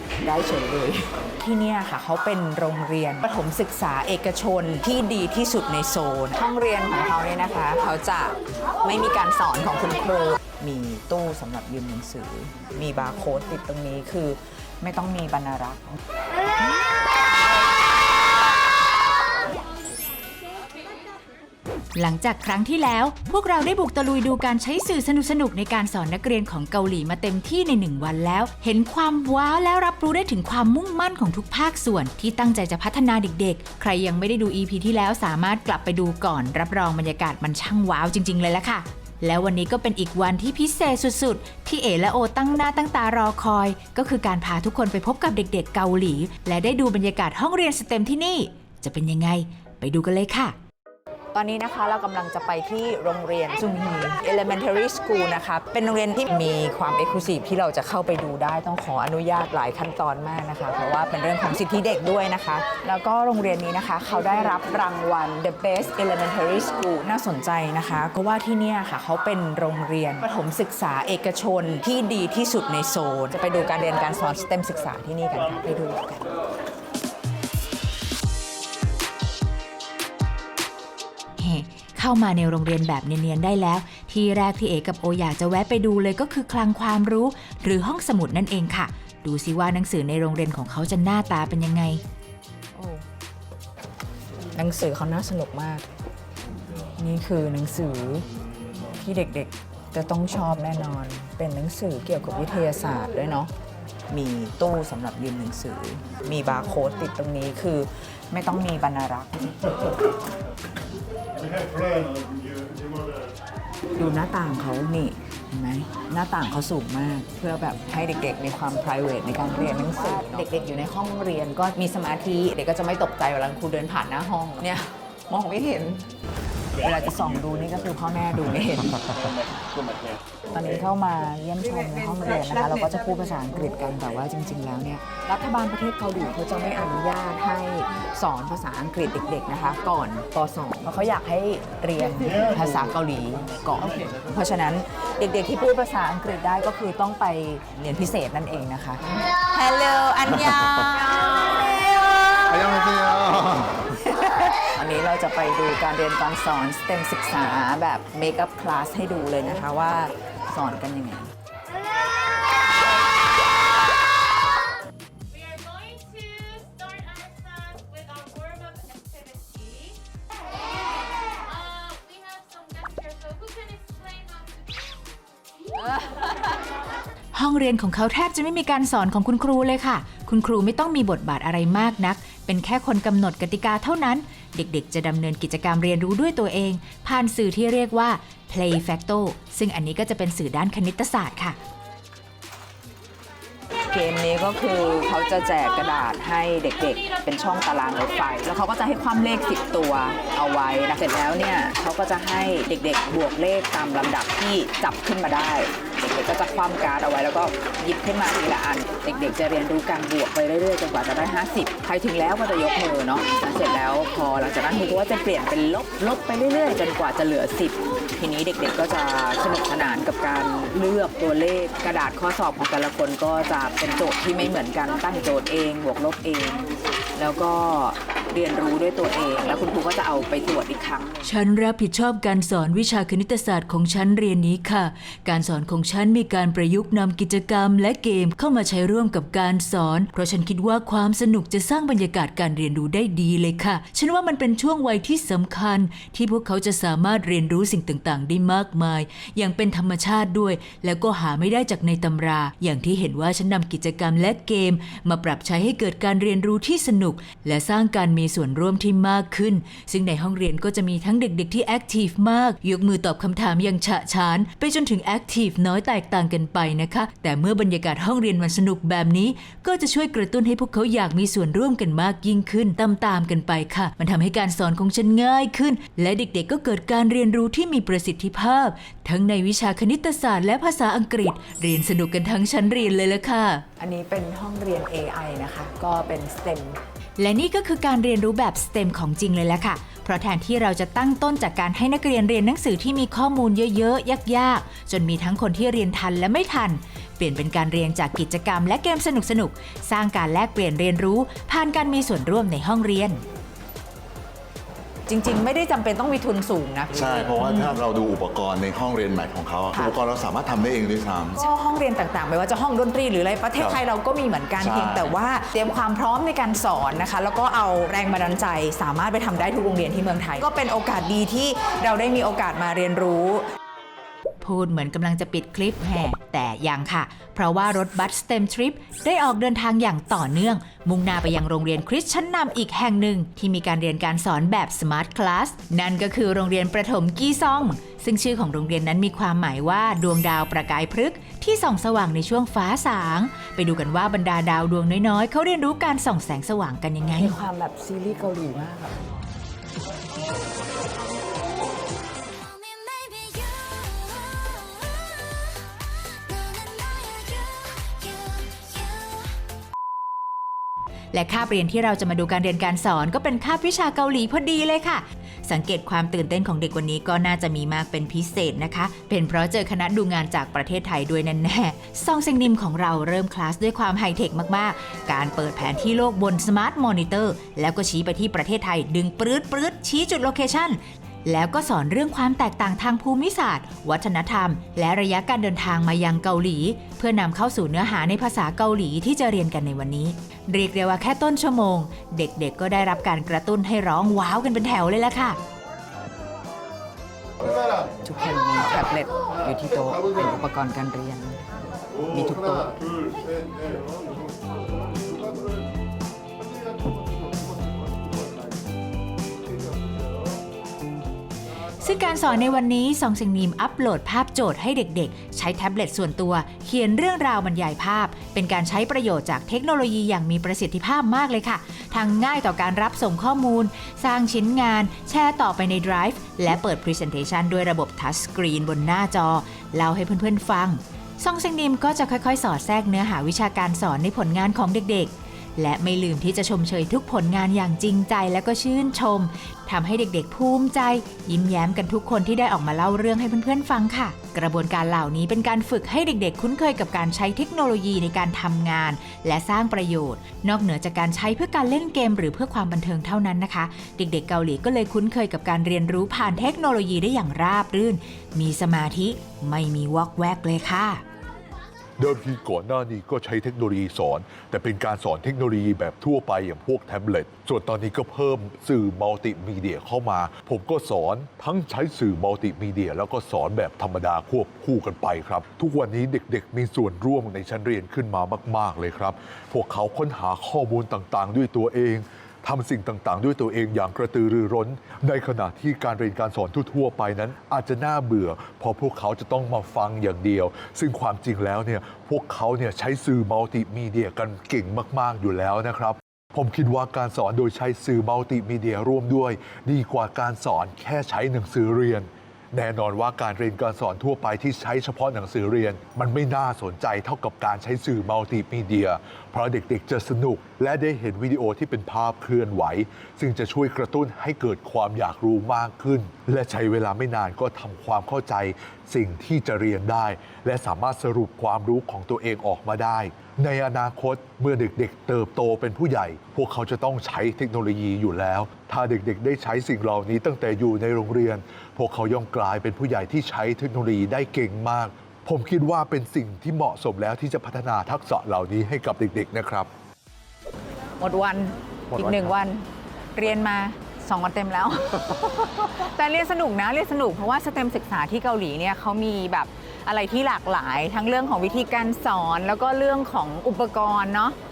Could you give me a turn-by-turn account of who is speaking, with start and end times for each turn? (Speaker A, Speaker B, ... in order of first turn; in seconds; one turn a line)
Speaker A: 0.2-16.0
Speaker B: 21.9-50.5
Speaker A: 51.3-76.3
Speaker B: 81.4-92.0
Speaker A: 92.7-93.0
Speaker A: 94.5-95.8
Speaker A: 97.0-98.2
Speaker A: 99.0-103.5
Speaker A: 104.1-109.5
Speaker A: 114.0-126.0
Speaker A: 126.8-129.1
Speaker A: 130.5-161.3
Speaker C: 167.1-169.7
Speaker C: 171.9-173.4
Speaker B: 177.3-191.6
Speaker A: 193.9-231.2
Speaker B: 231.2-283.6
Speaker A: 283.8-286.8
Speaker B: 287.2-303.2
Speaker A: 305.1-307.7
Speaker D: 306.9-311.5
Speaker A: 309.7-310.0
Speaker A: 311.3-323.4
Speaker D: 314.6-315.1
Speaker B: 324.4-347.4
Speaker A: 347.1-349.0
Speaker B: 353.1-353.5
Speaker B: 356.3-357.4
Speaker B: 361.1-395.4
Speaker A: 398.0-401.4
Speaker A: 402.0-402.8
Speaker B: 411.8-461.0
Speaker E: 462.0-539.7
Speaker A: 541.0-554.4
Speaker E: 541.9-542.3